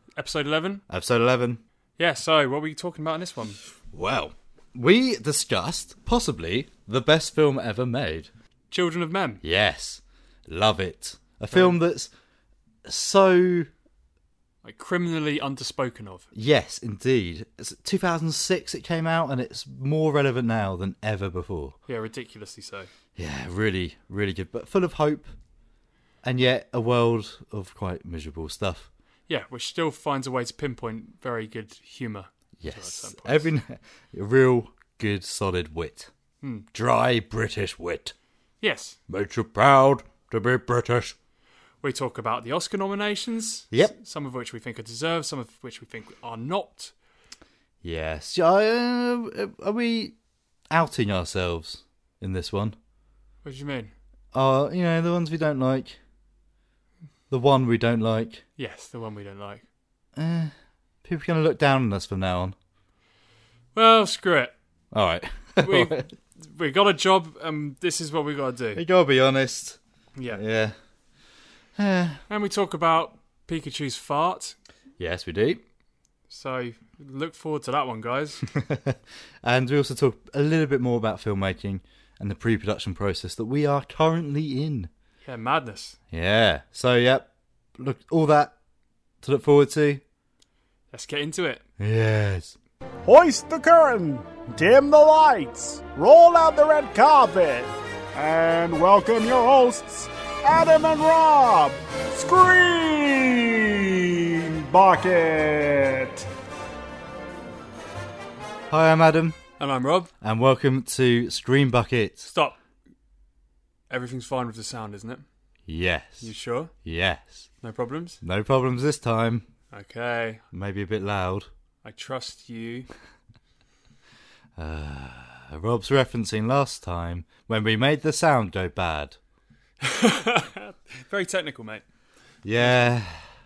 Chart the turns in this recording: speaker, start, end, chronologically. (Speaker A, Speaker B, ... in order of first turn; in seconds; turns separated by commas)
Speaker A: 0.2-0.8, Speaker B: 0.9-1.6, Speaker A: 2.0-3.6, Speaker B: 3.9-8.3, Speaker A: 8.7-9.4, Speaker B: 9.4-12.1, Speaker A: 11.5-11.8, Speaker B: 12.8-13.7, Speaker A: 14.6-16.3, Speaker B: 16.3-21.8, Speaker A: 21.9-22.9, Speaker B: 23.1-25.3, Speaker B: 26.2-28.9, Speaker A: 29.3-33.5, Speaker B: 32.6-36.1, Speaker B: 36.7-38.1, Speaker A: 38.6-39.0, Speaker B: 39.1-41.1, Speaker A: 41.8-46.9, Speaker B: 47.8-50.1, Speaker B: 50.7-52.7, Speaker A: 53.4-53.9, Speaker B: 54.3-56.0, Speaker B: 57.3-58.4, Speaker A: 58.6-59.6, Speaker B: 60.1-60.5, Speaker B: 61.0-62.5, Speaker A: 63.7-64.5, Speaker B: 64.9-66.1, Speaker A: 65.6-68.8, Speaker B: 68.7-70.8, Speaker A: 70.2-70.4, Speaker B: 71.8-72.2, Speaker A: 72.3-74.6, Speaker B: 75.0-75.6, Speaker A: 76.3-78.4, Speaker B: 78.5-84.9, Speaker A: 85.2-86.0, Speaker B: 86.1-88.5, Speaker B: 89.2-90.0, Speaker A: 90.9-91.6, Speaker B: 91.8-92.5, Speaker C: 93.0-106.2, Speaker B: 108.7-109.4, Speaker A: 109.6-110.1, Speaker B: 110.2-112.3, Speaker A: 112.2-112.6, Speaker A: 113.9-115.2, Speaker B: 115.7-116.3, Speaker A: 116.2-116.7, Speaker B: 116.8-117.5, Speaker A: 117.6-118.2, Speaker B: 118.2-119.5, Speaker A: 119.7-120.4, Speaker B: 120.5-121.5, Speaker A: 121.8-122.9, Speaker B: 124.6-129.2, Speaker A: 129.8-131.8, Speaker B: 132.4-133.3, Speaker A: 132.6-132.9